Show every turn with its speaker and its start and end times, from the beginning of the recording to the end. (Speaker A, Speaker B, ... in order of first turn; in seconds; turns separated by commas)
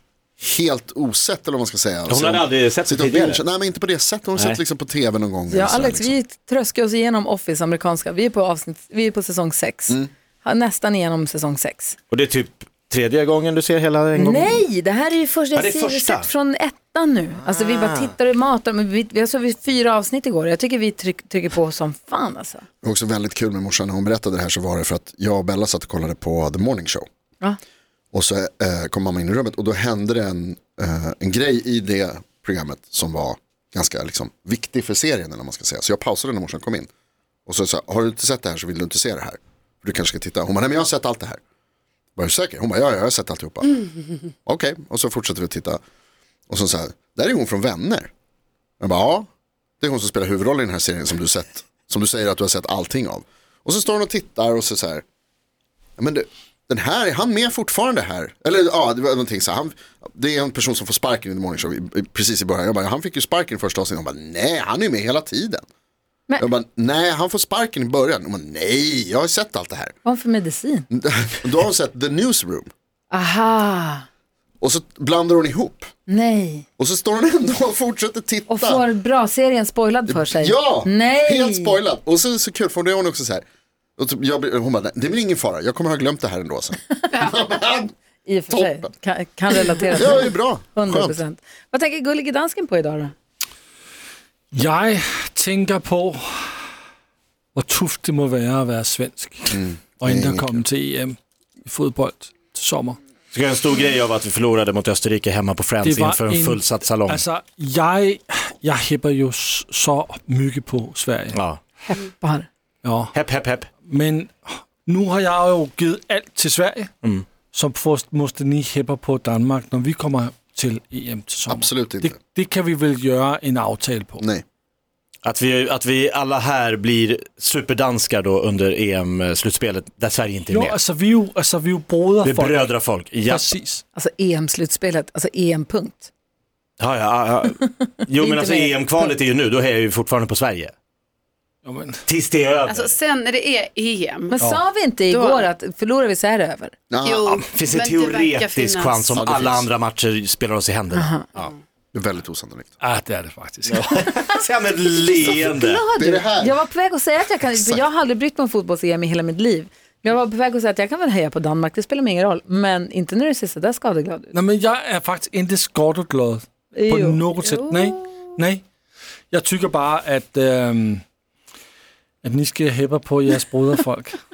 Speaker A: 0.4-6.2, Speaker B: 2.1-3.5, Speaker C: 5.5-12.0, Speaker B: 12.1-14.6, Speaker C: 14.2-22.7, Speaker B: 15.6-16.3, Speaker B: 17.5-18.1, Speaker A: 22.8-27.1, Speaker A: 28.1-36.9, Speaker A: 37.5-41.4, Speaker A: 42.2-43.9, Speaker A: 44.5-45.8, Speaker A: 46.5-48.1, Speaker A: 48.8-49.3, Speaker A: 49.8-55.0, Speaker A: 56.0-65.7, Speaker A: 66.4-69.9, Speaker C: 70.0-70.9, Speaker A: 70.9-72.7, Speaker C: 73.1-74.1, Speaker A: 74.6-75.9, Speaker C: 76.1-76.7, Speaker A: 76.8-78.8, Speaker C: 78.5-81.8, Speaker A: 80.1-83.4, Speaker A: 84.0-87.9, Speaker C: 88.2-93.1, Speaker A: 88.5-88.9, Speaker A: 90.0-91.2, Speaker D: 94.5-96.2, Speaker D: 97.5-103.0, Speaker A: 99.5-100.7, Speaker B: 103.3-107.2, Speaker D: 105.8-111.4, Speaker B: 111.3-111.6, Speaker C: 111.9-112.5, Speaker D: 112.8-113.2, Speaker B: 113.1-113.7, Speaker D: 113.8-116.9, Speaker B: 117.0-117.3, Speaker D: 117.5-124.2, Speaker A: 121.5-122.2, Speaker A: 124.2-124.4, Speaker B: 125.2-130.8, Speaker D: 130.5-132.7, Speaker B: 132.2-133.5, Speaker D: 133.2-133.8, Speaker C: 133.9-136.1, Speaker B: 136.8-140.7, Speaker C: 138.2-139.1, Speaker D: 141.7-142.0, Speaker B: 142.1-142.9, Speaker E: 142.7-144.3, Speaker C: 144.3-146.8, Speaker D: 144.4-144.6, Speaker E: 145.1-145.5, Speaker A: 146.9-147.4, Speaker E: 147.1-149.4, Speaker B: 147.4-151.5, Speaker A: 149.2-149.7, Speaker C: 150.9-151.2, Speaker A: 151.9-152.7, Speaker D: 152.8-154.2, Speaker B: 153.7-155.8, Speaker C: 155.2-164.3, Speaker A: 156.0-156.6, Speaker D: 164.3-168.6, Speaker C: 166.7-168.1, Speaker D: 169.3-171.0, Speaker D: 172.2-174.2